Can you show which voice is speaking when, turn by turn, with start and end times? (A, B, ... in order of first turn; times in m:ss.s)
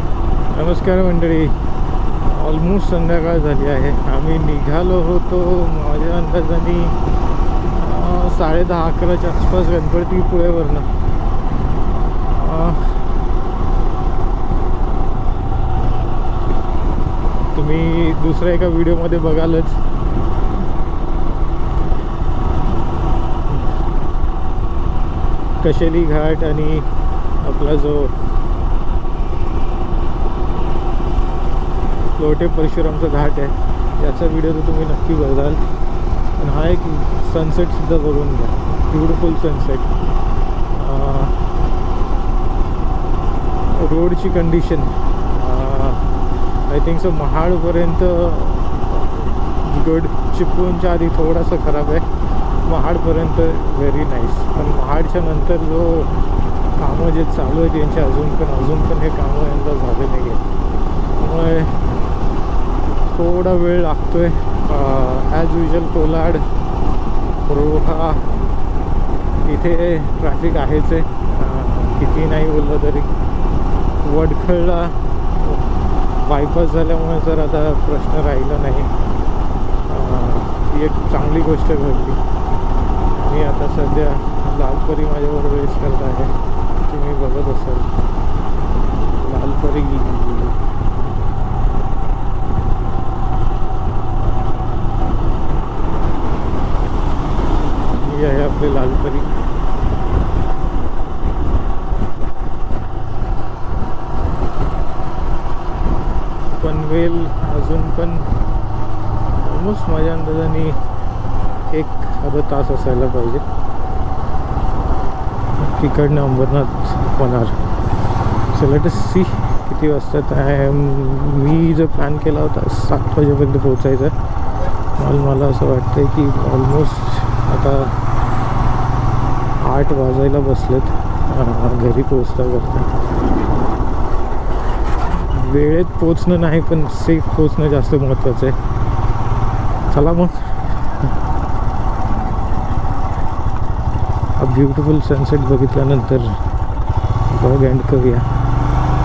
0:00.5-0:01.6 A
0:02.2-0:07.0 A
0:07.7-0:10.9 A
0:12.3-0:13.2 A
0:17.5-0:19.8 A
0:25.6-0:28.2 A
0:32.2-0:35.6 A
0:36.4-0:39.9 A
0:40.7-0:41.4 A
0:43.7-0:46.1 A
0:46.7-0:52.1 A
0:52.6-0:56.2 A
0:56.8-1:00.4 A
1:01.1-1:01.8 A
1:03.1-1:06.5 A
1:07.4-1:08.3 A
1:09.4-1:13.1 A
1:14.0-1:19.0 A
1:19.9-1:22.2 A
1:23.1-1:28.0 A
1:29.1-1:30.6 A
1:38.0-1:39.3 A
1:46.5-1:48.3 A
1:49.4-1:50.8 A
1:51.7-1:53.4 A
1:55.6-1:57.6 A
1:58.5-2:04.2 A
2:05.0-2:08.0 A
2:09.6-2:12.9 A
2:15.3-2:18.6 A
2:19.9-2:20.9 A
2:24.4-2:26.4 A
2:27.3-2:28.3 A